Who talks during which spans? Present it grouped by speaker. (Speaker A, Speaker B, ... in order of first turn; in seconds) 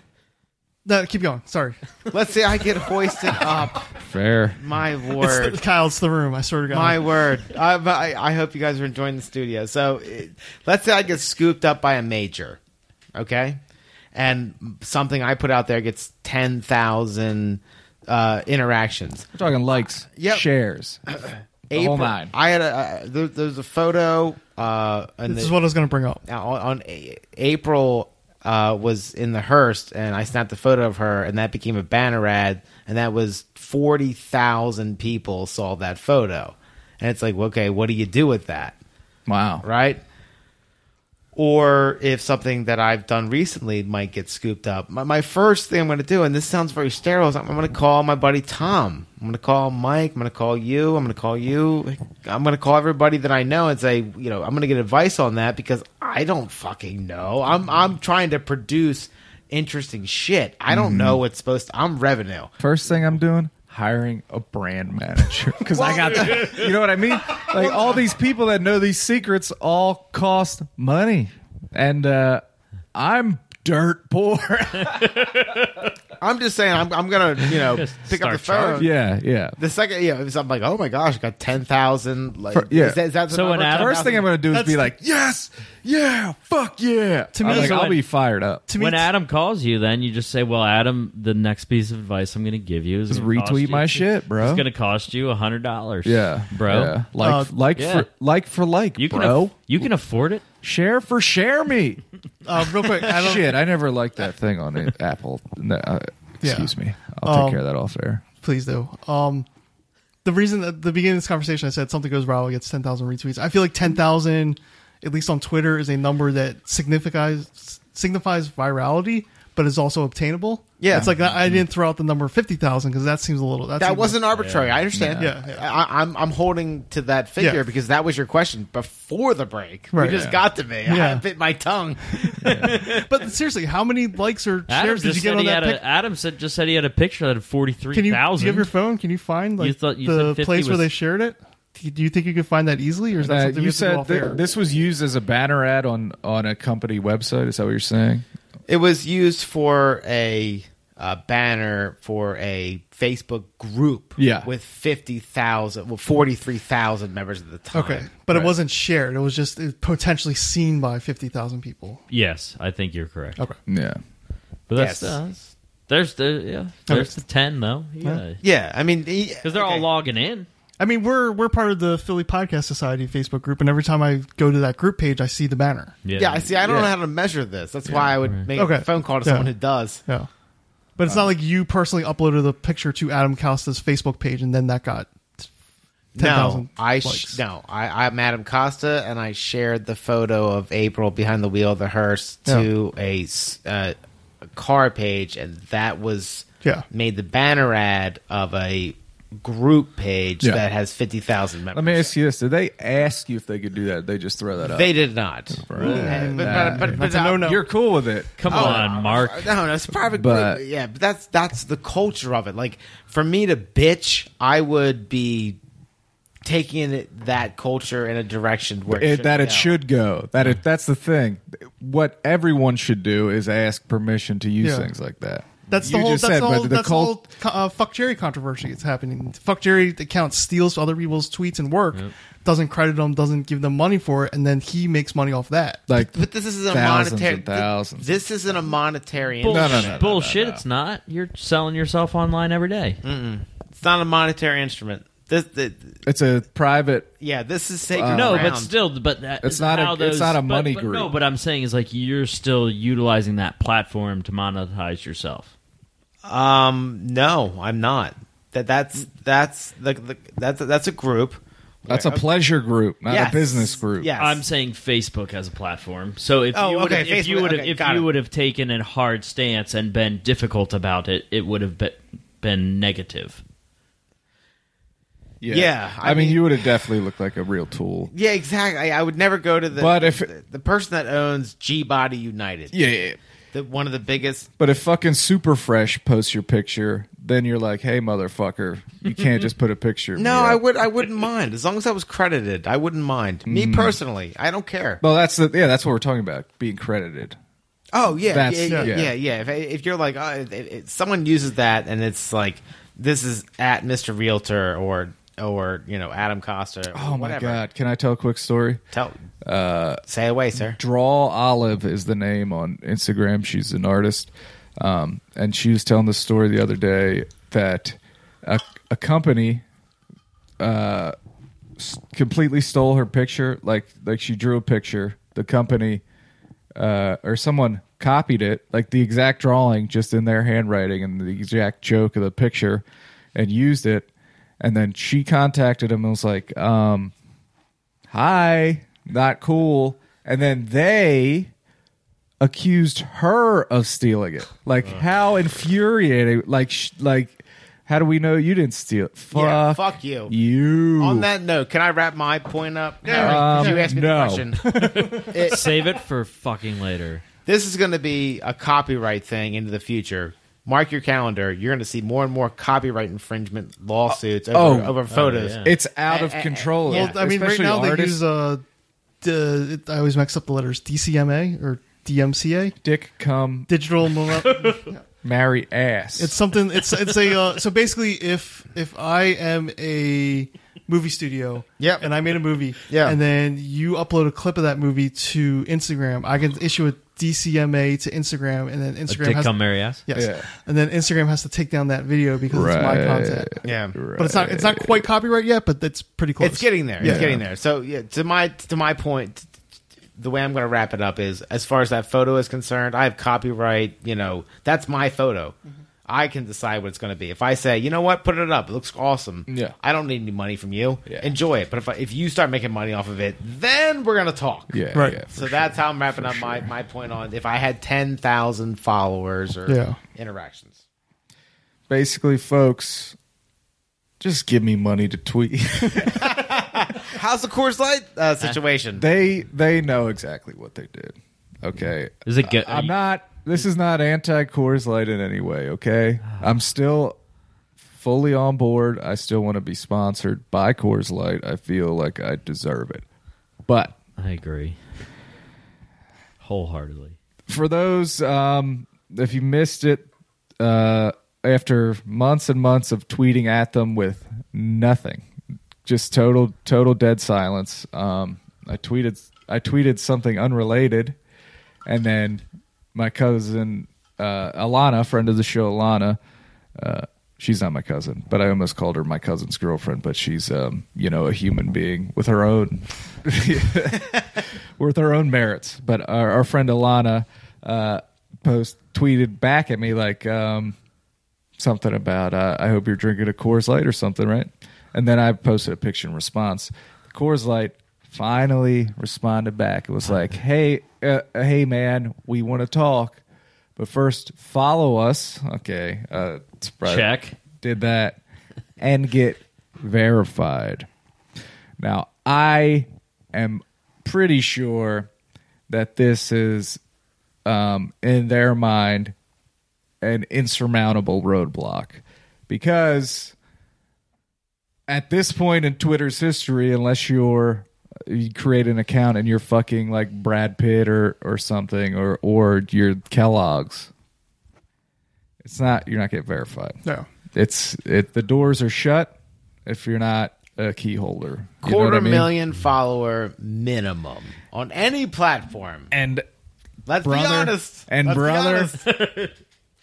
Speaker A: 0.8-1.8, 5.2-7.0, 25.3-26.2, 84.5-84.9, 87.3-88.0, 88.7-89.1, 97.2-97.5, 102.5-103.6, 106.4-106.7, 107.2-107.6, 108.4-109.5, 110.2-124.2, 125.2-125.6, 129.9-130.3, 130.8-131.2, 132.6-135.8, 137.9-144.4, 157.7-162.0, 166.9-167.2, 170.8-175.9, 178.5-179.5, 181.0-185.5, 186.2-187.4, 205.8-207.6, 224.6-224.9, 225.7-235.8, 353.1-353.9, 354.6-355.4, 366.9-368.6, 369.2-372.8, 373.7-375.0, 376.2-393.6, 394.1-397.3, 414.9-415.2, 419.7-420.0
Speaker B: 2.1-4.0, 4.5-5.6, 6.7-12.6, 13.1-13.6, 14.1-19.3, 20.2-20.5, 21.1-25.6, 26.3-38.8, 39.6-40.0, 41.4-62.5, 65.7-66.7, 76.2-78.9, 79.6-84.3, 120.8-121.1, 123.8-133.1, 148.7-158.1, 164.8-165.2, 168.4-169.9, 176.2-180.0, 186.2-193.9, 194.5-202.1, 204.6-207.5, 208.5-215.6, 216.4-219.8, 236.1-240.0, 243.0-246.0, 247.2-248.7, 256.2-262.2, 263.1-264.4, 266.5-268.1, 275.5-276.4, 278.1-282.8, 283.5-284.5, 290.2-295.0, 297.9-307.6, 310.1-310.8, 349.3-350.3, 351.0-355.9, 357.5-367.2, 381.8-382.1, 382.9-383.2, 393.6-394.0, 396.4-399.5, 400.2-414.8, 415.3-420.8, 426.1-429.1, 531.6-535.9, 536.9-539.0
Speaker C: 4.0-4.6, 19.4-21.0, 21.7-22.3, 39.3-39.6, 60.7-61.2, 62.6-72.4, 73.0-75.2, 78.8-79.6, 82.5-83.0, 83.7-88.7, 93.1-94.6, 96.0-99.9, 100.6-102.0, 103.0-108.2, 120.9-121.6, 124.9-125.3, 130.0-130.4, 132.4-132.7, 143.2-148.2, 154.2-154.5, 163.7-164.0, 176.6-176.9, 177.9-178.2, 201.7-205.0, 205.5-208.9, 210.1-210.6, 218.9-227.2, 235.9-238.2, 239.4-240.6, 246.1-247.1, 247.9-248.6, 249.4-251.1, 261.9-264.1, 275.4-278.1, 279.7-280.3, 282.7-283.2, 284.6-290.6, 293.5-294.0, 295.0-297.4, 298.2-299.1, 306.9-308.8, 309.4-310.0, 310.6-319.6, 320.6-321.1, 321.8-326.0, 326.8-334.1, 334.6-337.1, 338.1-341.5, 342.4-351.3, 353.1-354.5, 364.1-365.0, 365.6-368.2, 372.8-373.7, 375.2-376.4, 390.1-390.5, 392.5-395.0, 397.0-397.4, 409.5-409.8, 411.1-411.3, 414.7-416.7, 421.9-423.2, 424.2-426.4, 429.0-437.2, 438.0-443.0, 443.7-444.0, 447.5-450.1, 450.6-455.2, 455.9-461.2, 461.9-462.4, 462.9-466.2, 466.8-480.8, 481.6-493.2, 493.8-498.2, 498.8-500.9, 501.8-505.1, 505.7-506.8, 507.5-509.1, 510.0-513.4, 514.9-523.9, 525.4-526.8, 527.3-529.1, 529.7-532.3, 535.9-536.2, 537.0-538.7
Speaker D: 74.8-75.9, 77.5-78.9, 83.3-84.2, 87.4-88.0, 88.8-97.0, 97.8-98.1, 99.0-100.4, 124.3-124.8, 134.7-138.7, 139.6-140.9, 162.1-163.4, 164.7-168.4, 169.4-170.5, 176.1-176.6, 208.4-209.6, 239.4-243.0, 248.1-255.5, 264.2-273.4, 355.0-357.2, 365.1-365.7, 389.1-390.0, 432.3-432.9, 444.2-444.8, 446.4-447.2, 496.8-497.4, 538.9-539.3